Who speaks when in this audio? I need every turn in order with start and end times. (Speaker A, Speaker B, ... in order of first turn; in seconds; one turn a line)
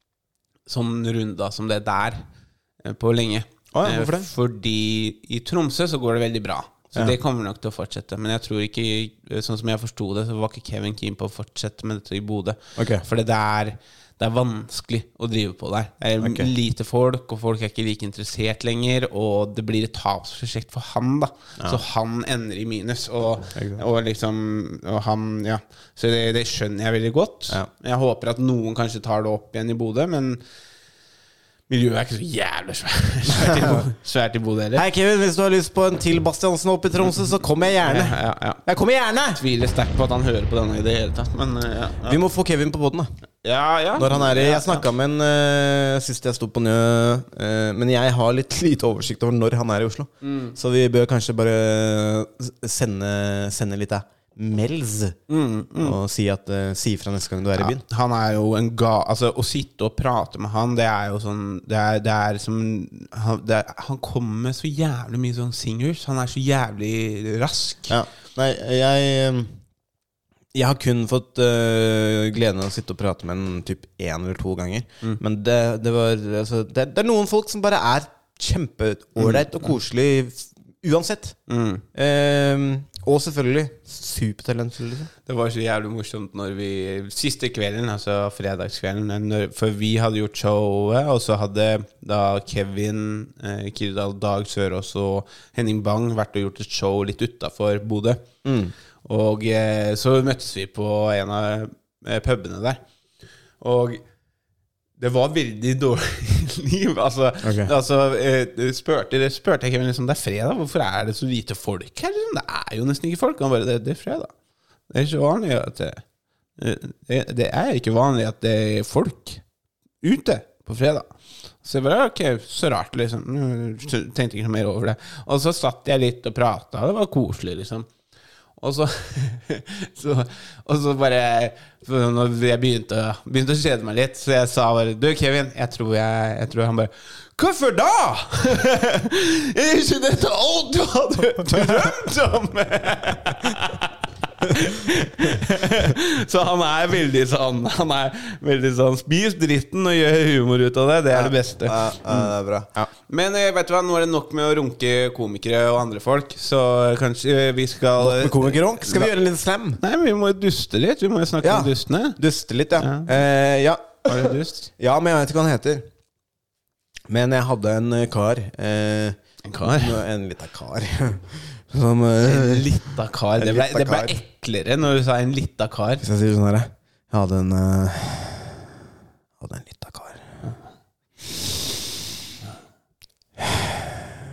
Speaker A: 0.7-2.2
Speaker A: 2.8-30.4
Speaker B: 3.7-4.3
Speaker B: 12.8-13.0
Speaker B: 16.2-16.5
Speaker B: 23.5-23.8
Speaker A: 31.7-34.8
Speaker B: 33.3-33.9
Speaker B: 34.7-39.4
Speaker A: 37.8-38.6
Speaker A: 39.3-42.2
Speaker B: 42.0-43.1
Speaker A: 43.4-44.9
Speaker B: 43.9-55.2
Speaker A: 50.2-50.5
Speaker A: 55.3-56.0
Speaker B: 55.8-57.8
Speaker A: 57.6-68.0
Speaker B: 67.9-69.5
Speaker B: 70.5-81.4
Speaker A: 79.2-79.7
Speaker A: 81.5-81.8
Speaker B: 81.9-85.1
Speaker A: 85.2-98.2
Speaker B: 98.4-98.7
Speaker A: 99.0-102.8
Speaker A: 103.6-104.0
Speaker A: 105.0-114.3
Speaker B: 107.4-107.7
Speaker A: 114.9-116.0
Speaker A: 116.6-119.4
Speaker A: 120.0-121.1
Speaker A: 121.6-127.9
Speaker A: 128.6-152.3
Speaker B: 151.1-152.9
Speaker A: 153.1-159.1
Speaker B: 158.0-159.8
Speaker A: 159.8-162.2
Speaker B: 161.4-165.9
Speaker A: 162.8-163.1
Speaker A: 164.1-164.7
Speaker B: 167.1-172.7
Speaker A: 169.4-170.0
Speaker A: 172.2-176.0
Speaker B: 173.4-174.2
Speaker B: 176.0-178.7
Speaker B: 179.4-180.3